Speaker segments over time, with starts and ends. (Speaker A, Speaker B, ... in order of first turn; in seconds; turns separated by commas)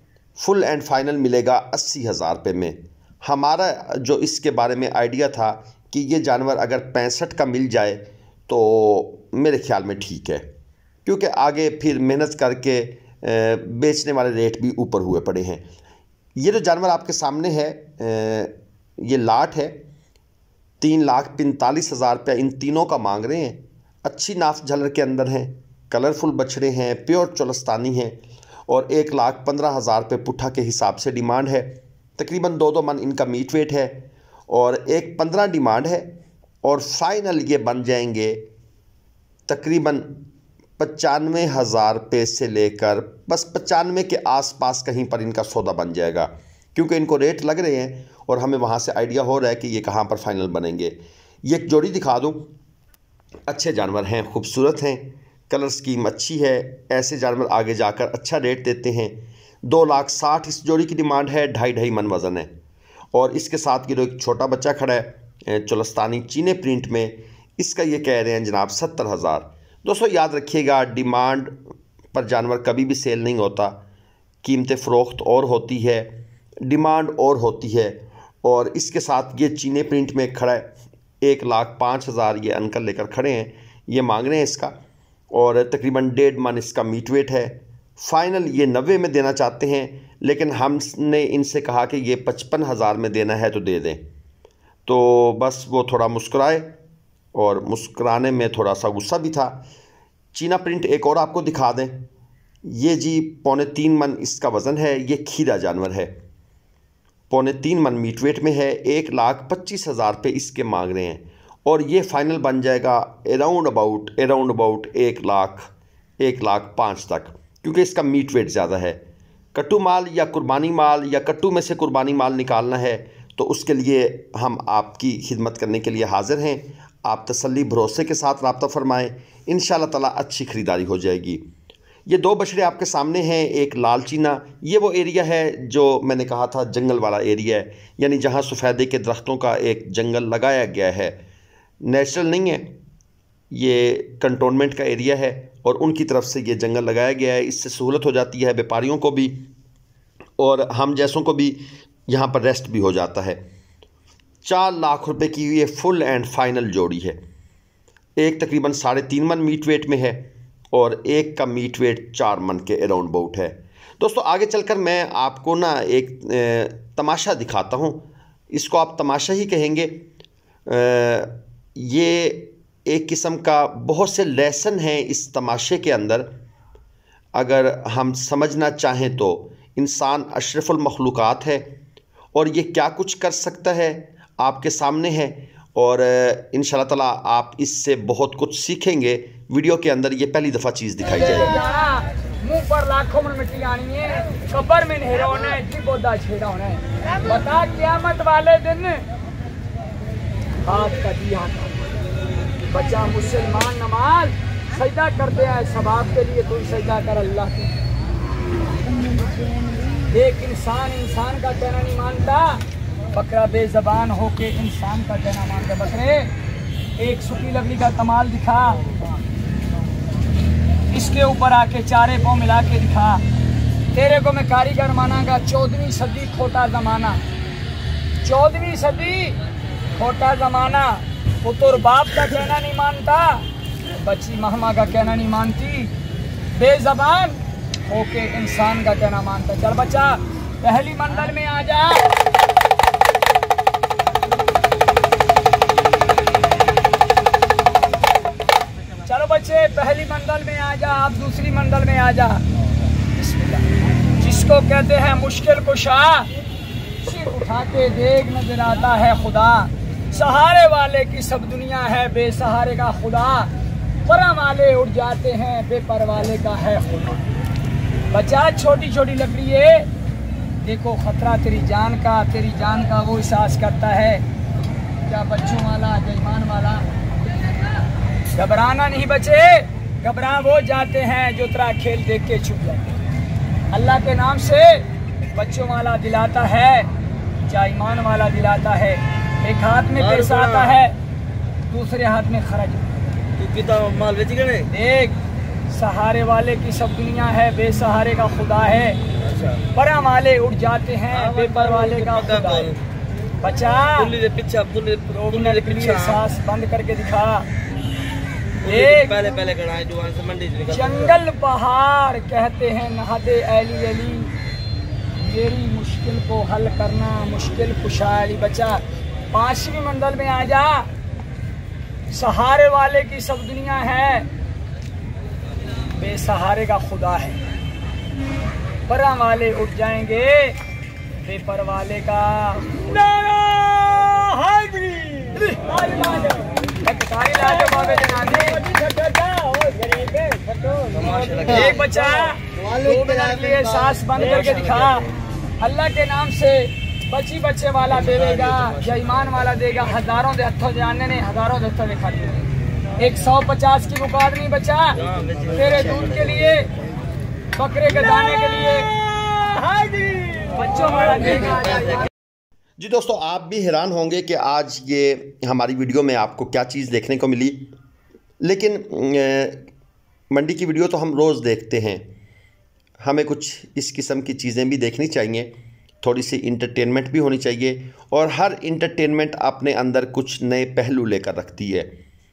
Speaker A: 0.4-10.4, Speaker A: 11.0-15.7, Speaker A: 16.4-19.8, Speaker A: 20.8-36.1, Speaker A: 36.6-38.4, Speaker A: 39.5-40.2, Speaker A: 40.8-52.5, Speaker A: 53.5-62.5, Speaker A: 63.1-71.6, Speaker A: 72.1-73.8, Speaker A: 74.4-76.1, Speaker A: 76.7-80.7, Speaker A: 81.2-84.8, Speaker A: 85.3-94.0, Speaker A: 94.9-96.8, Speaker A: 97.3-99.6, Speaker A: 100.3-102.1, Speaker A: 102.6-106.1, Speaker A: 107.3-119.0, Speaker A: 119.5-131.4, Speaker A: 132.1-141.2, Speaker A: 141.8-142.7, Speaker A: 143.5-149.4, Speaker A: 150.4-153.4, Speaker A: 154.4-157.2, Speaker A: 158.2-170.0, Speaker A: 170.7-176.3, Speaker A: 177.3-181.7, Speaker A: 182.3-191.6, Speaker B: 191.2-199.1, Speaker B: 200.6-201.8, Speaker B: 202.7-207.7, Speaker B: 210.1-216.3, Speaker B: 217.0-218.9, Speaker B: 220.9-223.2, Speaker B: 223.9-227.2, Speaker B: 228.2-229.4, Speaker B: 229.9-233.4, Speaker B: 233.9-235.9, Speaker B: 236.5-242.1, Speaker B: 249.1-252.4, Speaker B: 253.1-253.7, Speaker B: 254.2-256.3, Speaker B: 257.0-263.5, Speaker B: 264.0-267.2, Speaker B: 268.1-269.9, Speaker B: 270.6-274.2, Speaker B: 275.1-276.9, Speaker B: 278.3-283.0, Speaker B: 283.7-286.9, Speaker B: 287.4-290.9, Speaker C: 290.0-290.8, Speaker B: 291.7-293.0, Speaker C: 293.4-294.7, Speaker B: 294.7-295.2, Speaker B: 295.7-299.0, Speaker C: 299.3-299.6, Speaker B: 299.7-302.8, Speaker C: 301.1-302.8, Speaker B: 303.4-304.1, Speaker C: 303.9-306.2, Speaker B: 305.3-307.5, Speaker B: 308.6-309.3, Speaker C: 308.6-311.1, Speaker B: 310.7-314.3, Speaker B: 315.1-320.9, Speaker B: 322.1-324.3, Speaker B: 325.9-327.4, Speaker B: 328.9-330.6, Speaker B: 331.2-340.3, Speaker C: 340.9-343.6, Speaker B: 341.4-345.1, Speaker C: 344.4-344.8, Speaker B: 345.6-352.4, Speaker C: 348.2-348.6, Speaker B: 353.0-356.7, Speaker C: 355.0-356.2, Speaker B: 357.6-358.9, Speaker B: 360.5-362.1, Speaker C: 361.6-362.0, Speaker A: 362.8-367.7, Speaker A: 368.4-369.6, Speaker A: 370.3-372.1, Speaker A: 373.0-375.5, Speaker A: 376.0-381.9